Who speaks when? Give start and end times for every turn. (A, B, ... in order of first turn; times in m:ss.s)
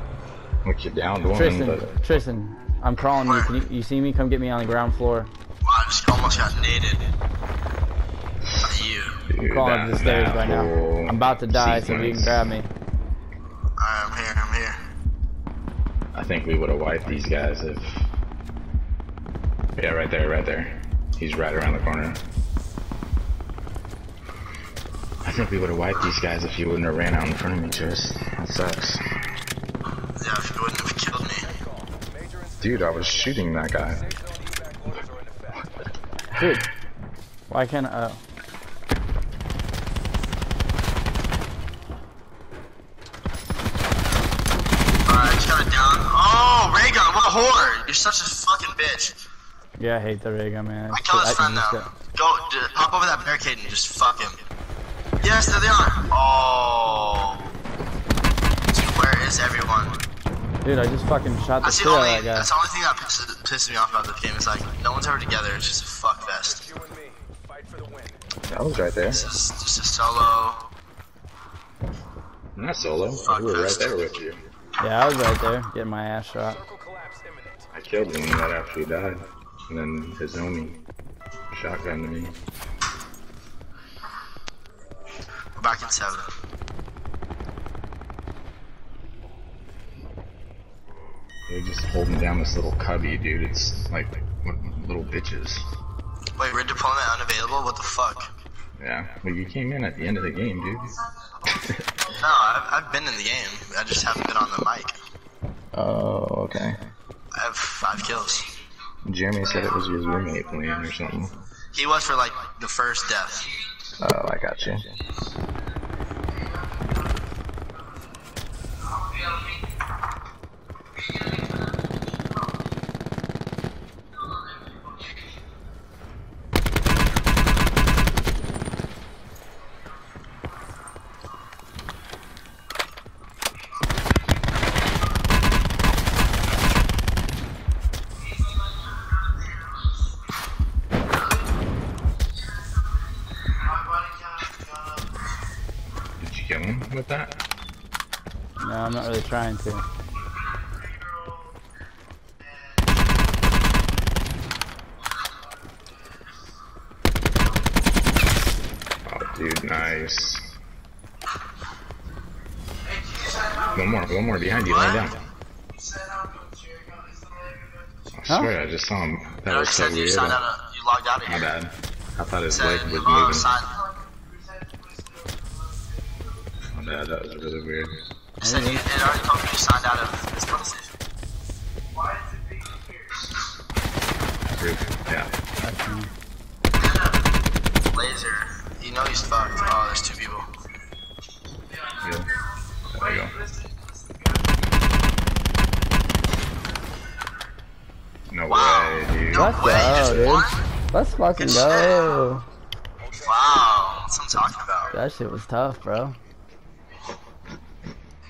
0:00.6-0:01.9 A
0:01.3-0:05.3 B
0:03.2-0:03.5 C
0:05.6-0:07.0 C
0:08.6-0:09.2 C
0:09.3-0:12.6 A
0:09.5-0:12.7 B
0:13.8-0:14.8 C
0:16.1-0:18.1 A
0:19.8-0:22.2 A
0:25.2-0:29.0 A
0:30.2-0:31.5 C
0:31.4-0:35.8 D
0:32.6-0:34.0 A
0:36.3-0:36.6 A
0:36.4-0:36.6 B
0:37.5-0:38.2 B
0:45.1-0:49.2 C
0:49.8-0:51.9 B
0:50.9-0:54.4 C
0:55.2-0:57.5 C
0:58.7-1:00.0 C
1:00.6-1:02.5 B
1:01.6-1:06.7 C
1:06.4-1:08.2 D
1:08.5-1:09.2 A
1:09.1-1:10.7 C
1:12.6-1:14.4 A
1:13.2-1:14.0 C
1:14.8-1:16.6 B
1:16.5-1:17.7 D
1:17.7-1:20.8 A
1:21.5-1:22.4 A
1:25.6-1:26.3 C
1:31.5-1:35.7 A
1:36.4-1:38.3 C
1:38.8-1:41.8 A
1:42.1-1:45.0 C
1:45.7-1:46.8 A
1:47.4-1:48.5 C
1:49.0-1:51.4 A
1:51.7-1:53.5 C
1:54.0-1:54.9 A
2:26.2-2:27.4 A
2:28.6-2:29.8 B
2:39.1-2:40.6 A
2:43.7-2:45.2 A
2:44.7-2:45.0 C
2:48.1-2:50.4 A
2:49.5-2:51.5 C
2:51.2-2:53.5 A
2:52.5-2:53.9 C
2:56.7-2:58.0 A
2:58.4-3:00.9 C
2:58.4-2:58.8 B
3:04.5-3:05.3 A
3:05.6-3:06.1 B
3:07.9-3:10.5 C
3:12.0-3:12.4 A
3:12.9-3:13.5 A
3:18.3-3:20.4 A
3:18.5-3:20.6 C
3:19.4-3:22.4 B
3:21.4-3:22.2 C
3:23.0-3:23.8 D
3:23.1-3:24.9 C
3:24.9-3:26.2 B